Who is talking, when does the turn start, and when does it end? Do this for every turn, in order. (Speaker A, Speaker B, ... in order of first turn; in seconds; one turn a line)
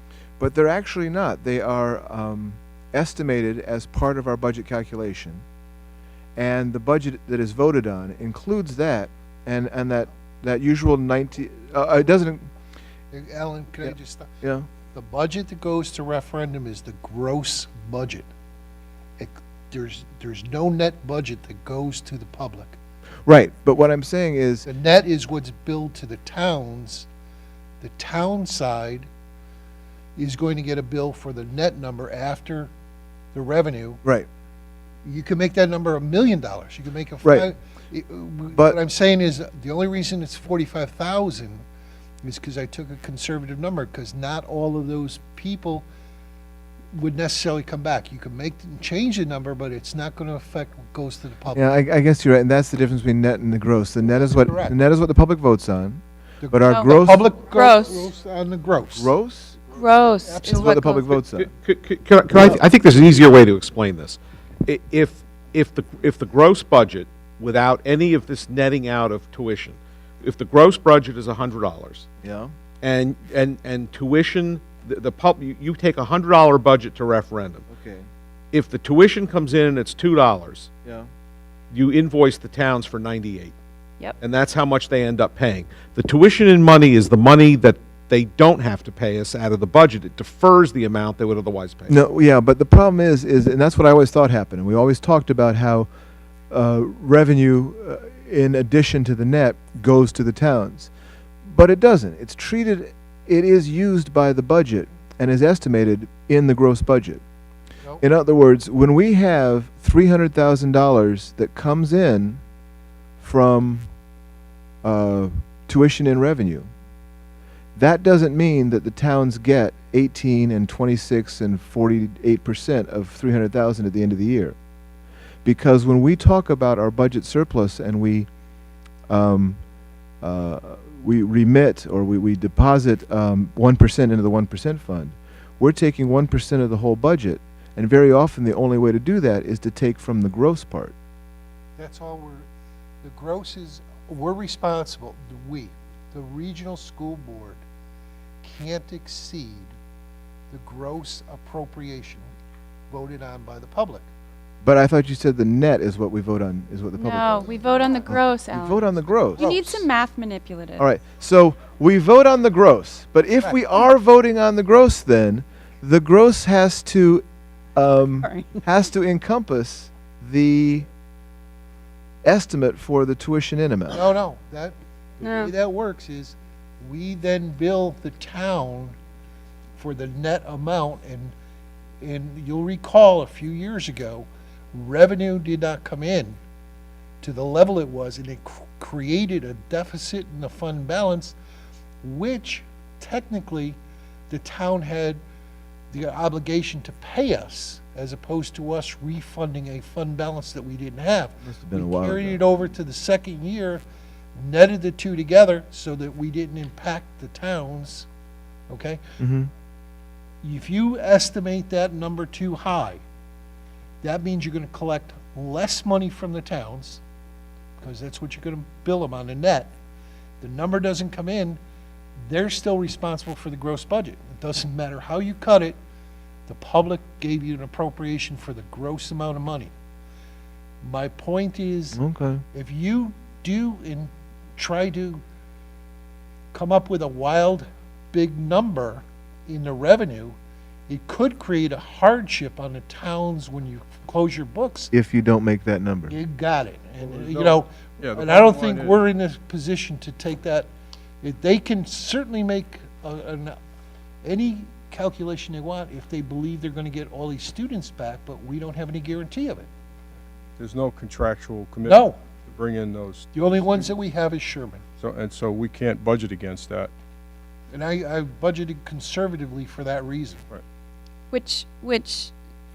Speaker A: 0.4-5.4
Speaker A: 6.4-12.5
Speaker B: 13.1-14.3
Speaker A: 13.8-14.7
Speaker B: 14.9-18.3
Speaker B: 19.2-22.8
Speaker A: 23.2-24.7
Speaker B: 24.7-27.1
Speaker B: 27.8-29.1
Speaker B: 30.2-32.7
Speaker B: 33.3-34.0
Speaker B: 35.0-41.6
Speaker B: 42.2-45.9
Speaker B: 46.9-51.7
Speaker A: 51.5-57.3
Speaker B: 54.1-54.7
Speaker B: 56.4-59.1
Speaker C: 56.7-58.1
Speaker A: 59.0-59.6
Speaker C: 59.7-61.1
Speaker B: 60.2-60.8
Speaker A: 60.5-61.5
Speaker D: 61.4-72.1
Speaker A: 72.2-72.5
Speaker D: 72.8-77.7
Speaker A: 77.7-78.1
Speaker D: 78.5-80.7
Speaker D: 81.7-83.5
Speaker D: 84.2-92.0
Speaker A: 91.9-95.9
Speaker A: 96.5-100.9
Speaker A: 101.4-107.2
Speaker A: 108.0-112.4
Speaker A: 113.2-113.9
Speaker A: 114.8-116.7
Speaker A: 117.8-124.6
Speaker A: 125.4-128.3
Speaker A: 129.1-129.6
Speaker A: 130.2-140.9
Speaker B: 141.8-142.5
Speaker B: 143.0-147.6
Speaker B: 148.4-149.7
Speaker B: 150.5-152.3
Speaker B: 152.9-154.1
Speaker A: 154.6-159.6
Speaker C: 157.0-160.8
Speaker B: 159.4-159.8
Speaker A: 160.8-167.2
Speaker A: 167.8-170.9
Speaker C: 168.2-168.5
Speaker A: 172.2-174.1
Speaker B: 173.9-178.9
Speaker C: 175.2-175.5
Speaker B: 179.8-181.3
Speaker B: 182.0-186.4
Speaker B: 187.2-191.4
Speaker B: 192.0-193.8
Speaker B: 194.3-195.2
Speaker B: 195.9-203.8
Speaker A: 201.4-202.4
Speaker B: 204.4-208.1
Speaker B: 208.7-209.0
Speaker A: 209.2-209.5
Speaker B: 210.4-213.0
Speaker B: 214.0-217.0
Speaker B: 217.8-219.7
Speaker B: 220.4-221.6
Speaker B: 222.3-225.8
Speaker B: 226.5-229.7
Speaker B: 230.8-232.0
Speaker A: 231.9-232.4
Speaker B: 232.5-235.2
Speaker B: 236.5-240.4
Speaker B: 240.9-244.9
Speaker A: 244.9-246.2
Speaker B: 246.1-250.7
Speaker E: 247.0-249.0
Speaker B: 251.2-253.6
Speaker B: 254.2-259.7
Speaker E: 260.6-263.3
Speaker B: 261.8-262.2
Speaker B: 263.3-264.8
Speaker E: 265.0-266.9
Speaker B: 267.7-270.4
Speaker C: 271.3-272.3